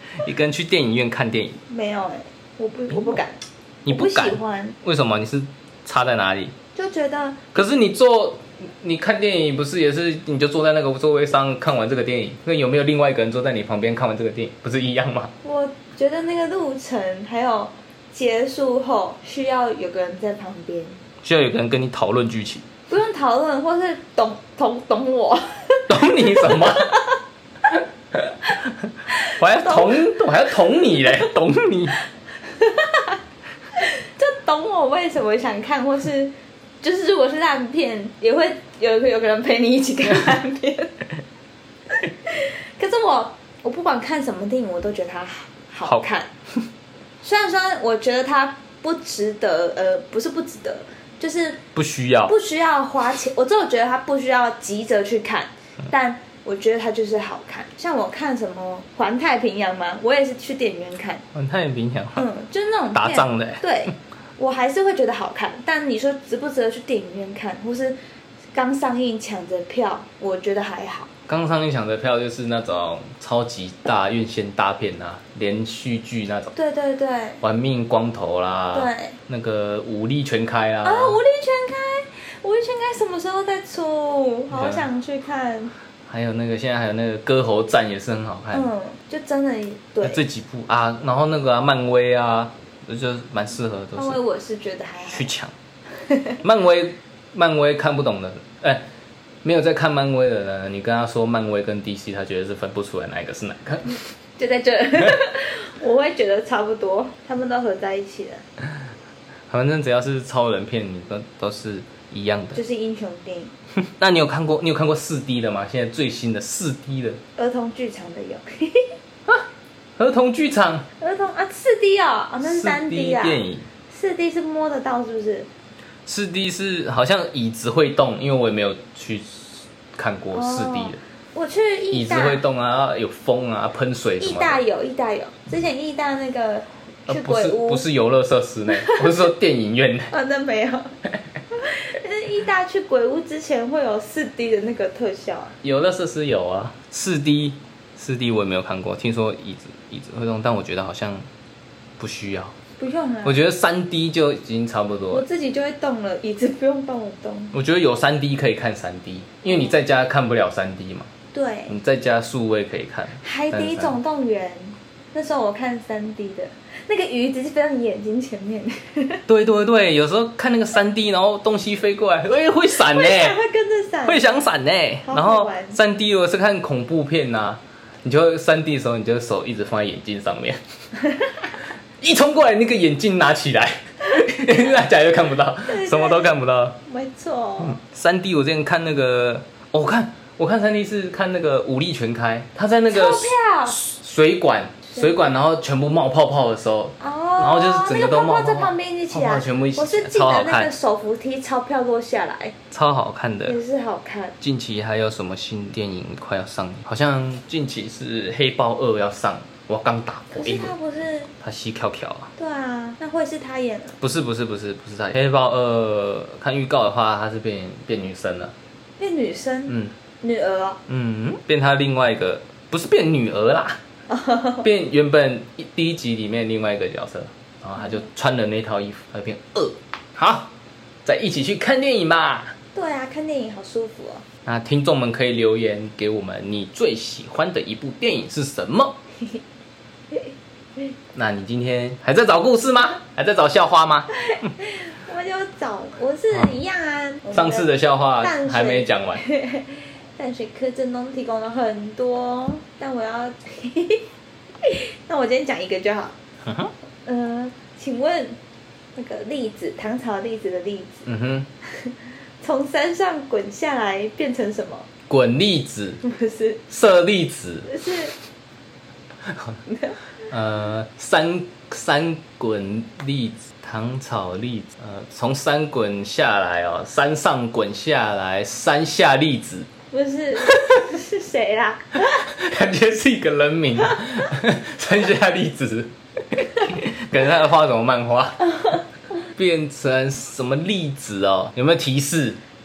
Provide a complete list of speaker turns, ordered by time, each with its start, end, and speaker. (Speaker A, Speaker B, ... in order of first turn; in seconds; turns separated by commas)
Speaker A: 0.2-1.6, Speaker B: 1.7-4.8, Speaker A: 2.9-3.2, Speaker A: 3.8-6.5, Speaker B: 6.7-7.4, Speaker A: 7.5-15.3, Speaker B: 15.4-21.0, Speaker A: 21.2-22.6, Speaker B: 22.9-27.2, Speaker A: 25.9-26.9, Speaker A: 27.7-32.0, Speaker B: 29.1-30.1, Speaker B: 32.5-33.2, Speaker B: 33.8-40.9, Speaker B: 42.1-46.3, Speaker B: 47.2-51.6, Speaker A: 51.7-52.3, Speaker B: 52.3-61.2, Speaker A: 61.3-62.2, Speaker B: 62.1-68.0, Speaker A: 62.9-63.6, Speaker B: 68.5-71.1, Speaker A: 71.3-76.5, Speaker B: 76.5-77.4, Speaker A: 77.4-81.2, Speaker B: 78.7-79.2, Speaker B: 80.8-85.7, Speaker A: 84.5-84.9, Speaker A: 86.1-88.7, Speaker B: 88.5-90.2, Speaker A: 90.0-94.2, Speaker B: 94.0-95.3, Speaker A: 95.0-95.5, Speaker B: 96.0-96.4, Speaker A: 96.4-98.8, Speaker A: 99.4-104.0, Speaker B: 104.4-108.4, Speaker A: 109.5-112.6, Speaker B: 112.5-113.5, Speaker A: 113.8-117.2, Speaker B: 117.4-118.9, Speaker A: 119.3-120.9, Speaker B: 121.0-125.5, Speaker A: 122.4-123.7, Speaker A: 126.0-131.0, Speaker B: 130.3-132.4, Speaker A: 131.9-134.6, Speaker B: 134.2-137.8, Speaker A: 137.1-140.1, Speaker B: 138.7-139.3, Speaker B: 140.1-140.9, Speaker B: 141.5-145.6, Speaker A: 145.6-151.3, Speaker A: 152.0-152.6, Speaker B: 152.8-153.4, Speaker A: 153.2-155.2, Speaker B: 155.1-157.5, Speaker A: 157.5-161.1, Speaker B: 161.3-161.7, Speaker A: 161.7-164.0, Speaker B: 163.2-169.2, Speaker A: 169.3-173.4, Speaker B: 172.8-174.3, Speaker A: 174.0-180.6, Speaker B: 175.0-175.8, Speaker A: 182.0-186.8, Speaker B: 185.7-187.8, Speaker A: 187.6-200.7, Speaker B: 192.9-193.8, Speaker B: 197.0-202.6, Speaker A: 202.7-203.6, Speaker B: 203.5-204.3, Speaker A: 204.4-210.7, Speaker B: 210.3-211.3, Speaker A: 211.4-212.3, Speaker B: 212.4-214.0, Speaker A: 214.0-218.5, Speaker B: 219.0-220.8, Speaker A: 220.9-223.8, Speaker B: 224.1-224.6, Speaker A: 224.6-230.5, Speaker A: 231.0-232.5, Speaker B: 232.7-234.2, Speaker A: 234.4-239.0, Speaker A: 241.1-244.1, Speaker B: 244.3-254.1, Speaker A: 247.3-249.2, Speaker B: 254.6-256.1, Speaker A: 256.4-256.7, Speaker B: 257.0-258.4, Speaker B: 258.9-261.1, Speaker A: 261.1-261.5, Speaker B: 261.7-264.9, Speaker A: 265.1-266.0, Speaker B: 266.0-266.6, Speaker A: 266.7-267.7, Speaker B: 267.7-268.1, Speaker A: 269.2-269.6, Speaker B: 269.7-270.0, Speaker A: 270.3-279.7, Speaker B: 279.9-282.3, Speaker A: 280.4-280.7, Speaker A: 282.1-288.4, Speaker B: 288.4-288.8, Speaker A: 289.4-292.4